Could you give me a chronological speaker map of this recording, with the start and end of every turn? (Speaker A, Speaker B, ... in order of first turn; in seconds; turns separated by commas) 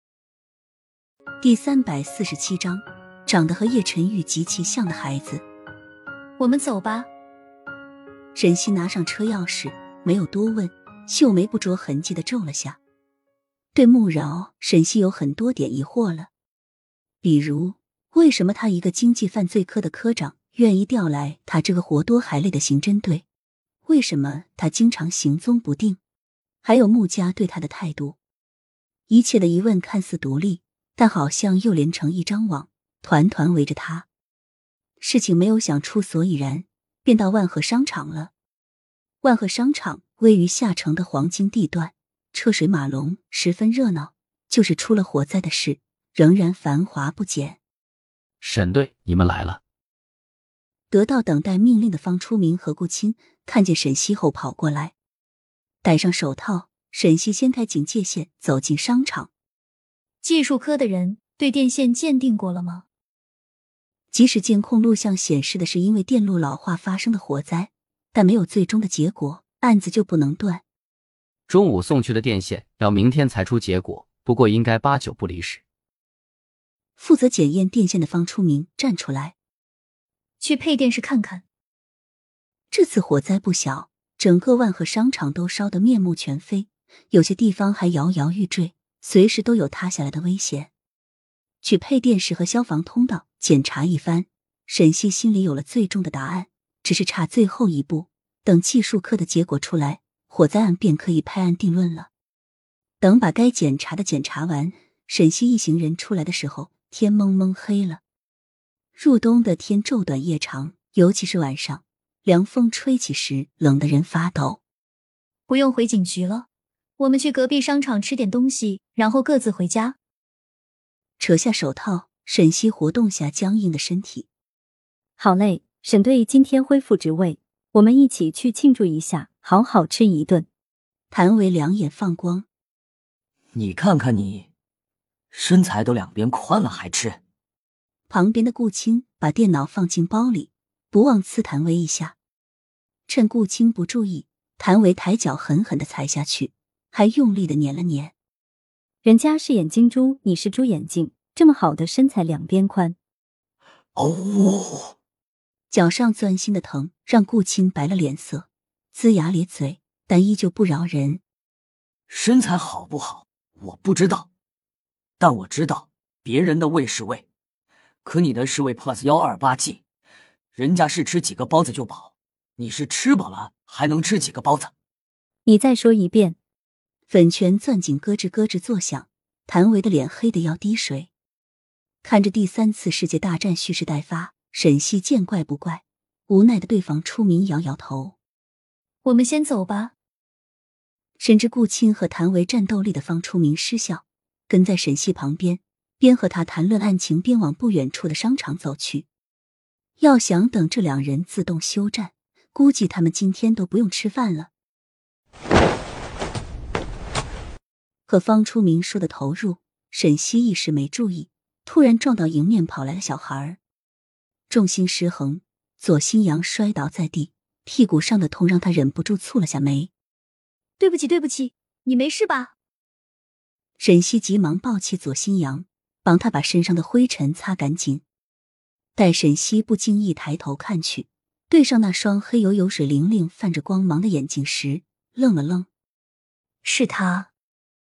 Speaker A: 1.4-5.4, Speaker B: 6.4-7.1, Speaker A: 8.3-12.8, Speaker A: 13.8-16.3, Speaker A: 17.2-23.2, Speaker A: 23.9-26.0, Speaker A: 26.6-28.2, Speaker A: 29.1-34.1, Speaker A: 35.0-38.3, Speaker A: 39.2-47.6, Speaker C: 48.4-49.6, Speaker A: 50.9-54.9, Speaker A: 55.8-59.3, Speaker B: 60.2-62.8, Speaker A: 64.1-70.6, Speaker C: 71.5-75.6, Speaker A: 77.0-79.3, Speaker B: 80.4-81.4, Speaker A: 82.7-90.7, Speaker A: 91.6-102.1, Speaker A: 103.0-108.0, Speaker A: 109.0-114.6, Speaker B: 115.5-116.5, Speaker B: 117.0-120.0, Speaker A: 121.2-124.3, Speaker D: 125.2-130.5, Speaker A: 131.1-132.5, Speaker E: 133.5-134.5, Speaker E: 135.3-137.2, Speaker A: 138.1-142.2, Speaker A: 143.1-148.1, Speaker D: 149.0-153.0, Speaker E: 154.0-154.9, Speaker A: 155.7-161.2, Speaker E: 162.1-164.3, Speaker E: 165.2-167.2, Speaker E: 168.0-169.8, Speaker E: 170.6-174.7, Speaker D: 175.5-176.4, Speaker A: 177.1-181.1, Speaker A: 182.0-188.2, Speaker B: 189.0-189.9, Speaker A: 191.2-199.1, Speaker A: 200.0-204.5, Speaker A: 208.1-213.6, Speaker A: 214.5-219.9, Speaker B: 220.8-222.5, Speaker A: 223.8-228.0, Speaker A: 229.0-235.7, Speaker B: 236.6-237.3